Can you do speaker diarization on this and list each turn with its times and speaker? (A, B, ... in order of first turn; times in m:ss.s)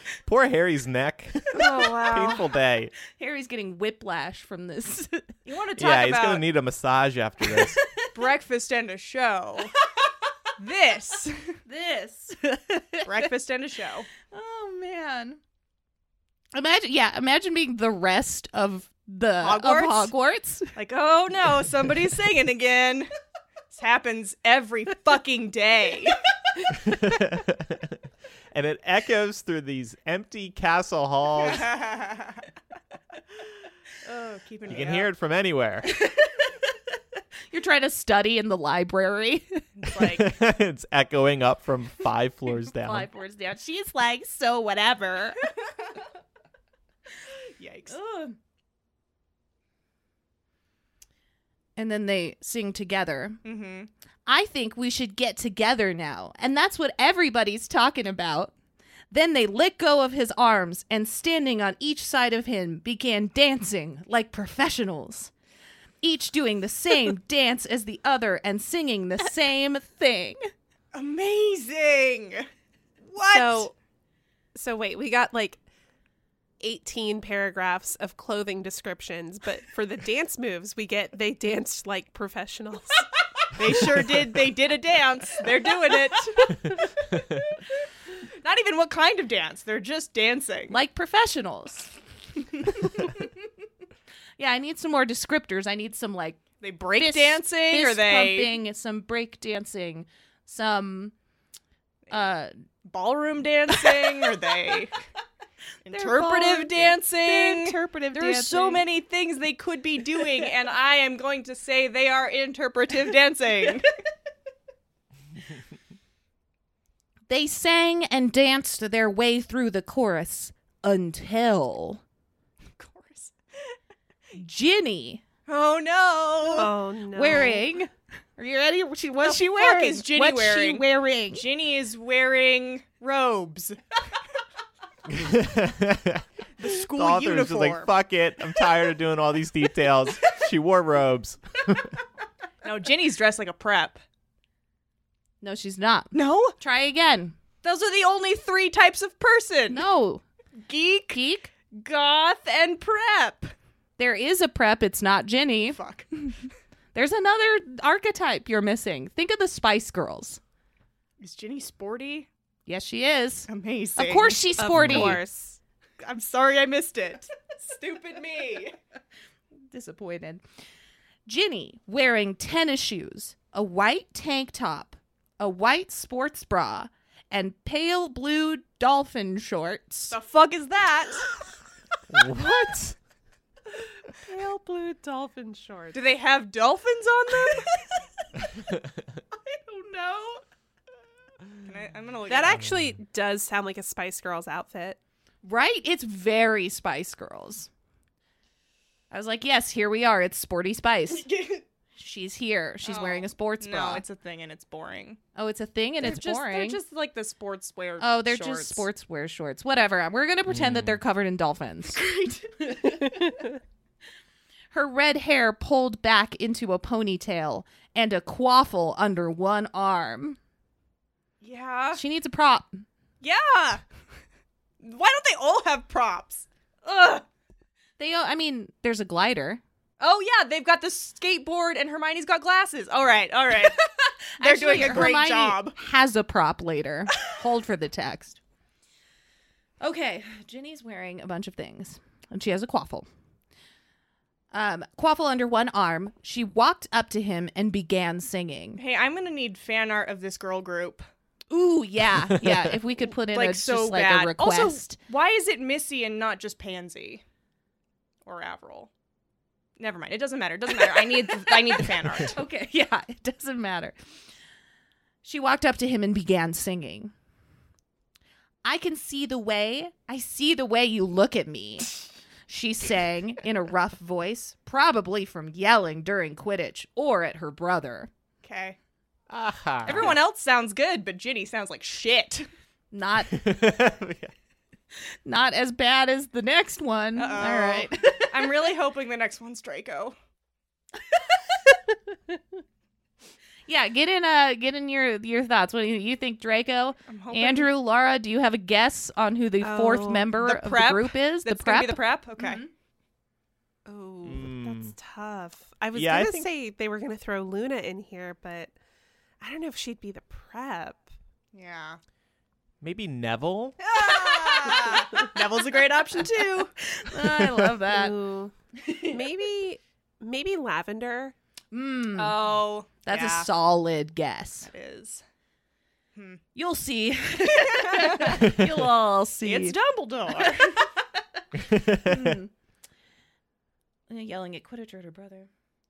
0:00.2-0:02.9 A
0:01.5-0:02.5 B
0:03.1-0:05.3 C
0:05.4-0:06.4 B
0:05.8-0:07.8 A
0:07.5-0:08.1 C
0:08.1-0:09.7 B
0:10.6-0:11.6 B
0:11.7-0:13.3 C
0:13.0-0:14.1 B
0:14.2-0:15.4 C
0:16.5-0:20.7 C
0:19.4-0:20.1 B
0:20.7-0:23.1 B
0:23.7-0:26.2 B
0:26.7-0:28.0 A
0:28.5-0:31.7 A
0:31.4-0:32.4 B
0:34.0-0:35.1 B
0:34.7-0:35.9 A
0:35.9-0:36.6 C
0:37.5-0:39.9 C
0:39.8-0:40.3 B
0:39.9-0:43.1 A
0:42.7-0:45.5 C
0:47.6-0:48.0 B
0:47.9-0:48.4 C
0:51.8-0:53.4 C
0:53.4-0:53.9 B
0:54.2-0:58.5 C
0:59.1-1:05.3 C
1:06.0-1:10.4 C
1:10.9-1:12.5 B
1:13.0-1:13.7 B
1:13.3-1:13.7 D
1:14.5-1:15.6 D
1:16.6-1:23.0 D
1:23.5-1:26.7 B
1:28.4-1:30.7 B
1:30.7-1:33.3 C
1:34.4-1:36.4 C
1:36.6-1:38.6 B
1:37.0-1:41.1 C
1:42.1-1:42.5 C
1:42.8-1:45.0 B
1:43.9-1:44.2 C
1:45.9-1:53.9 B
1:45.9-1:48.8 C
1:57.3-2:02.0 C
2:02.8-2:03.3 B
2:04.4-2:05.2 C
2:05.5-2:06.7 B
2:06.5-2:07.6 D
2:06.6-2:11.4 C
2:09.2-2:13.8 B
2:15.1-2:16.2 A
2:16.6-2:17.9 B
2:16.8-2:22.0 A
2:22.6-2:24.0 B
2:25.4-2:27.3 C
2:26.1-2:26.5 B
2:27.6-2:29.8 B
2:29.7-2:30.2 C
2:30.6-2:31.2 B
2:31.1-2:31.5 C
2:31.7-2:33.5 B
2:34.0-2:36.4 C
2:35.7-2:36.1 B
2:36.9-2:40.4 C
2:41.2-2:42.3 B
2:42.7-2:45.2 C
2:43.5-2:44.4 B
2:44.6-2:45.6 D
2:44.7-2:45.2 A
2:46.0-2:48.8 B
2:49.7-2:50.4 C
2:51.2-3:00.2 C
3:00.1-3:01.3 B
3:02.1-3:03.0 A
3:04.2-3:06.0 D
3:05.9-3:07.8 B
3:09.7-3:10.4 B
3:11.6-3:12.6 B
3:12.3-3:15.0 D
3:15.4-3:17.7 C
3:19.1-3:21.3 C
3:21.2-3:21.6 B
3:22.0-3:24.0 C
3:22.8-3:25.2 B
3:25.3-3:26.8 C
3:26.0-3:28.9 B
3:28.0-3:32.0 C
3:30.5-3:31.0 A
3:31.9-3:32.7 B
3:32.8-3:33.3 C
3:34.7-3:40.4 C
3:41.4-3:42.0 B
3:42.0-3:42.8 C
3:43.2-3:43.8 B
3:44.8-3:47.2 B
3:48.0-3:49.6 C
3:50.0-3:53.8 B
3:54.4-3:58.4 C
3:54.4-3:55.7 B
3:59.8-4:03.1 C
4:04.5-4:08.8 C
4:08.8-4:11.1 B
4:11.5-4:15.0 C
4:12.3-4:12.7 A
4:13.3-4:17.2 B
4:18.2-4:18.9 B
4:19.8-4:22.4 B
4:22.3-4:23.9 C
4:25.2-4:27.1 C
4:28.6-4:38.1 C
4:38.4-4:38.8 B
4:39.3-4:40.1 A
4:39.8-4:42.5 B
4:42.9-4:43.5 C
4:43.3-4:44.3 A
4:45.2-4:48.6 C
4:47.2-4:50.2 B
4:51.1-4:52.4 C
4:53.7-5:02.7 C
4:57.1-4:57.7 B
4:59.6-5:00.3 D
5:00.3-5:02.6 B
5:03.8-5:08.7 D
5:04.2-5:04.9 A
5:05.9-5:06.5 A
5:09.4-5:11.1 D
5:11.5-5:12.0 B
5:12.8-5:13.8 A
5:13.8-5:16.7 B
5:14.7-5:15.3 C
5:16.9-5:18.2 C
5:17.8-5:18.5 D
5:18.8-5:19.2 C
5:19.1-5:21.3 D
5:21.7-5:22.4 C
5:22.1-5:23.5 B
5:23.0-5:24.7 C
5:24.6-5:25.2 B
5:26.5-5:29.8 C
5:27.8-5:28.4 B
5:28.4-5:28.7 A
5:29.4-5:30.8 B
5:30.3-5:30.9 C
5:31.6-5:32.4 A
5:31.9-5:32.5 C
5:34.1-5:35.5 C